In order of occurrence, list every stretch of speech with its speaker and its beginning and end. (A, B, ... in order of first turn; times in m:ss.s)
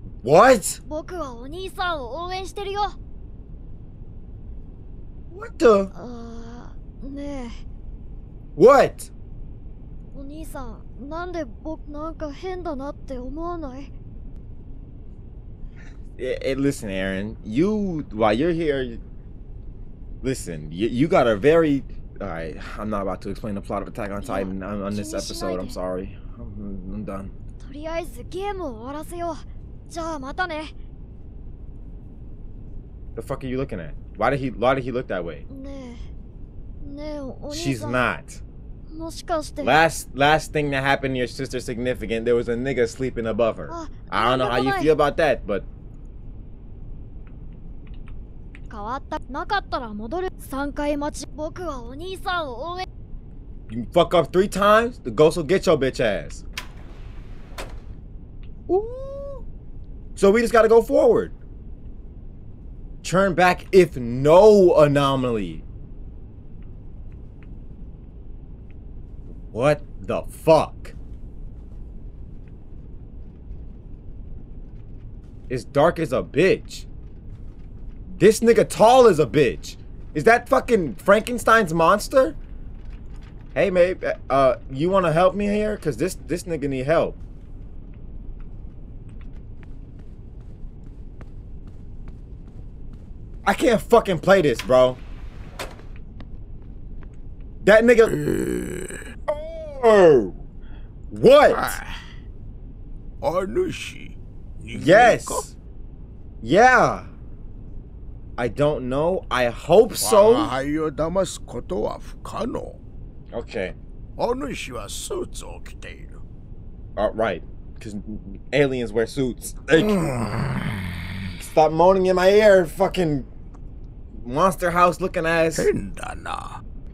0:00.2-0:00.8 A
0:00.8-0:03.0 B
0:05.3-0:05.9 A
0:05.9-0:07.5 B
0:08.6-0:09.1 A
0:10.1-0:13.9 B
0:16.2-0:19.0 A
0:20.2-0:27.3 A
0:24.2-0:25.8 B
0:27.6-0:30.7 B
0:33.2-0:35.4 A
0:35.5-0:36.0 B
0:36.8-0:38.0 B
0:37.5-0:38.4 A
0:38.9-0:39.8 B
0:39.6-0:45.6 A
0:43.7-0:44.9 B
0:48.7-0:52.8 B
0:53.7-0:56.4 A
0:58.7-0:59.4 A
1:00.2-1:01.3 A
1:03.0-1:05.6 A
1:09.5-1:10.9 A
1:15.5-1:16.9 A
1:18.1-1:22.4 A
1:23.5-1:27.2 A
1:33.4-1:35.0 A
1:37.6-1:38.1 A
1:38.1-1:39.0 C
1:39.3-1:40.4 A
1:41.1-1:41.8 A
1:41.5-1:41.9 C
1:43.2-1:45.4 C
1:44.7-1:45.6 A
1:46.4-1:47.1 A
1:48.4-1:50.5 A
1:50.0-1:52.8 C
1:53.3-1:53.8 A
1:54.2-1:56.2 C
1:57.0-2:00.0 A
1:59.7-2:01.0 C
2:01.4-2:03.3 A
2:04.1-2:05.7 A
2:05.5-2:06.6 C